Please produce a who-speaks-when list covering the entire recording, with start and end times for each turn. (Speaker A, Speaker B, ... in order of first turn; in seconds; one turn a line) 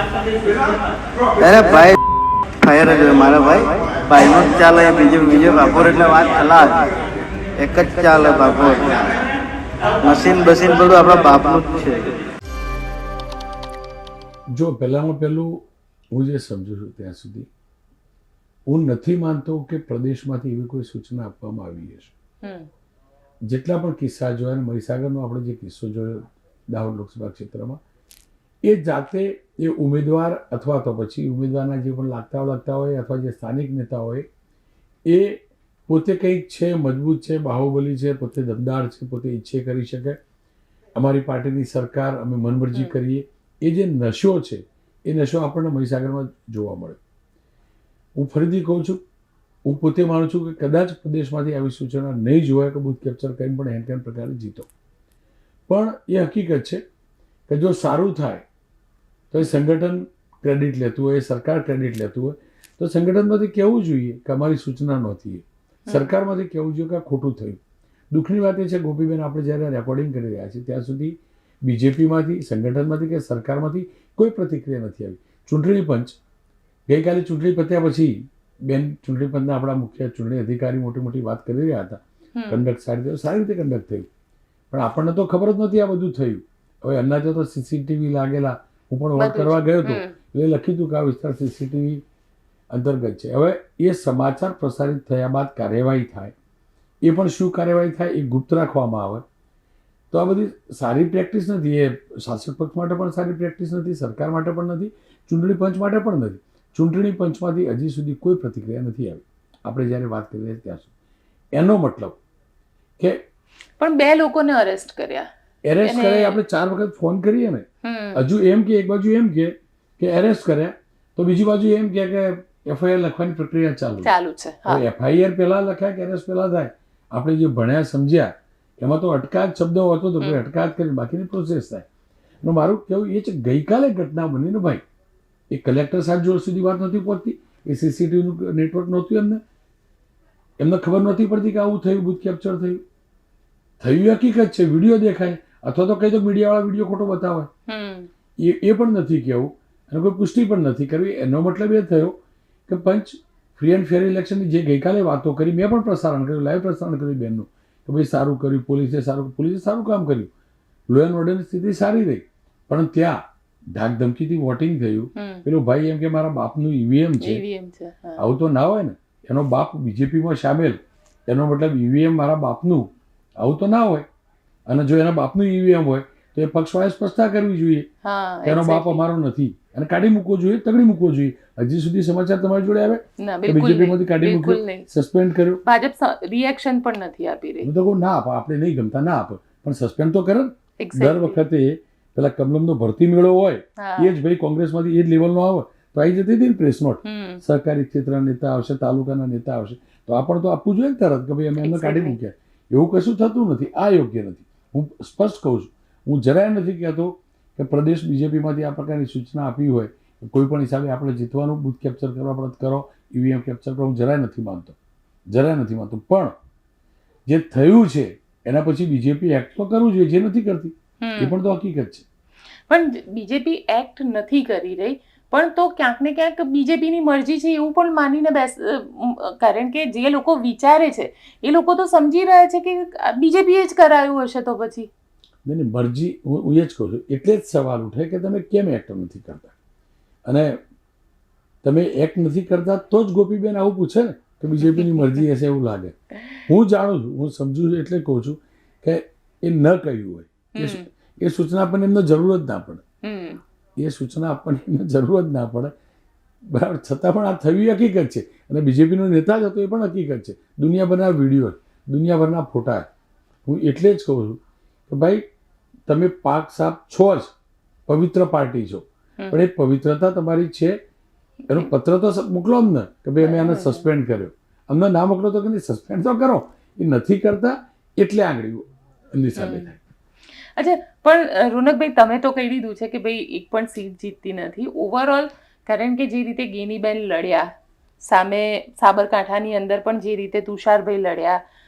Speaker A: 1.4-1.9
Speaker A: 2.6-6.9
Speaker A: 7.6-9.0
Speaker A: 10.0-12.1
Speaker B: 14.5-17.5
Speaker B: 18.7-22.1
Speaker C: 22.4-22.7
Speaker B: 23.4-27.8
Speaker B: 28.6-34.3
Speaker B: 35.1-40.2
Speaker B: 40.9-47.0
Speaker B: 48.1-49.0
Speaker B: 49.6-54.7
Speaker B: 55.7-56.8
Speaker B: 57.5-58.5
Speaker B: 59.3-76.2
Speaker C: 65.8-66.1
Speaker B: 76.9-84.1
Speaker C: 82.3-82.7
Speaker B: 84.7-92.0
Speaker C: 89.2-90.1
Speaker B: 92.7-96.3
Speaker B: 97.0-99.2
Speaker B: 100.1-110.9
Speaker B: 111.5-112.2
Speaker C: 113.8-115.3
Speaker B: 115.6-124.1
Speaker C: 115.8-116.4
Speaker C: 117.8-118.2
Speaker C: 124.0-124.8
Speaker B: 124.6-131.8
Speaker B: 132.4-134.8
Speaker B: 135.5-139.4
Speaker B: 140.6-142.8
Speaker B: 143.8-147.5
Speaker C: 147.7-148.1
Speaker B: 148.4-152.2
Speaker B: 152.7-160.3
Speaker B: 160.9-163.2
Speaker B: 163.7-167.4
Speaker C: 165.2-165.4
Speaker C: 167.2-168.2
Speaker B: 168.2-174.1
Speaker B: 174.7-177.9
Speaker C: 178.0-179.0
Speaker B: 178.4-185.6
Speaker C: 183.2-184.9
Speaker C: 185.6-187.7
Speaker B: 187.6-214.8
Speaker C: 190.8-191.4
Speaker C: 193.8-194.1
Speaker C: 197.0-197.4
Speaker C: 201.6-202.2
Speaker B: 215.3-216.3
Speaker B: 217.3-222.0
Speaker C: 221.0-221.4
Speaker C: 222.7-234.9
Speaker B: 235.4-239.5
Speaker B: 240.2-240.6
Speaker B: 241.6-252.8
Speaker C: 244.7-245.1
Speaker C: 250.5-250.9
Speaker C: 253.0-253.4
Speaker B: 253.8-255.7
Speaker B: 256.5-262.9
Speaker B: 263.4-265.2
Speaker B: 265.9-267.3
Speaker B: 267.9-270.8
Speaker B: 271.5-279.8
Speaker C: 273.2-273.9
Speaker C: 279.3-279.7
Speaker C: 280.6-287.5
Speaker C: 288.0-291.4